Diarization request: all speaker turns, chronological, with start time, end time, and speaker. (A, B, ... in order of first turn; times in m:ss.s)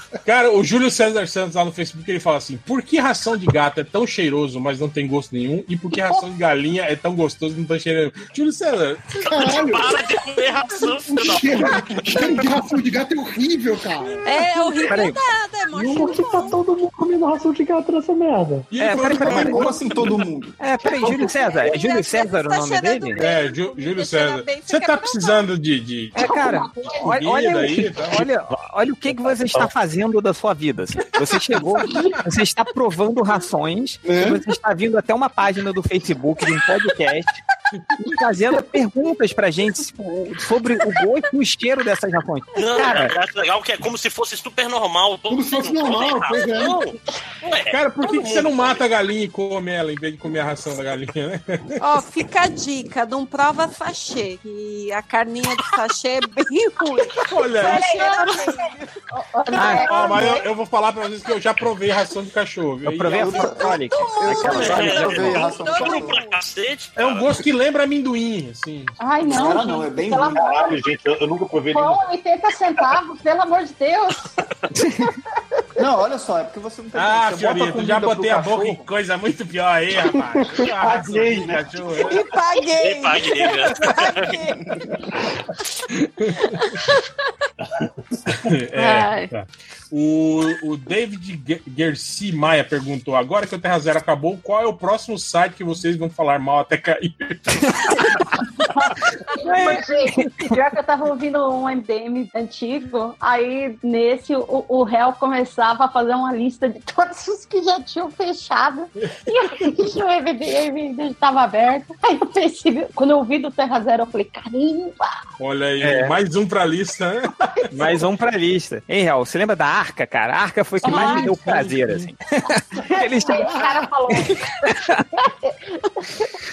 0:00.2-0:09.2 A
0:09.3-0:10.0 B
0:09.3-0:12.0 C
0:10.8-0:14.2 B
0:14.2-0:16.6 D
0:14.8-0:15.2 E
0:15.7-0:18.7 F
0:18.7-0:20.1 A
0:18.8-0:19.8 E
0:19.2-0:20.6 G
0:20.6-0:23.2 E
0:21.1-0:25.5 D
0:23.2-0:26.2 A
0:26.1-0:37.4 E
0:26.3-0:26.7 H
0:26.8-0:28.2 A
0:31.9-0:32.2 H
0:34.0-0:34.4 B
0:38.0-0:43.1 E
0:42.6-0:48.7 C
0:45.3-0:46.8 B
0:47.7-0:51.8 A
0:51.8-0:58.7 D
0:57.2-0:58.0 A
0:57.6-1:00.5 H
0:59.5-1:00.3 E
0:59.7-1:03.5 A
1:02.8-1:05.3 E
1:03.1-1:06.2 G
1:04.0-1:06.4 D
1:04.4-1:07.4 C
1:07.0-1:09.0 A
1:09.0-1:10.8 H
1:09.2-1:10.5 G
1:10.3-1:12.0 I
1:11.7-1:14.4 H
1:14.7-1:15.1 E
1:15.8-1:18.9 G
1:16.9-1:22.2 A
1:20.8-1:22.3 I
1:22.1-1:24.6 D
1:22.8-1:24.4 C
1:26.2-1:26.6 A
1:28.4-1:38.0 A
1:28.8-1:29.1 D
1:37.7-1:38.2 E
1:38.6-1:55.1 H
1:39.4-1:40.5 E
1:55.4-1:57.5 A
1:55.8-1:56.2 E
1:57.7-2:05.1 E
2:00.8-2:01.3 H
2:00.8-2:02.1 A
2:02.9-2:04.4 H
2:05.2-2:06.2 H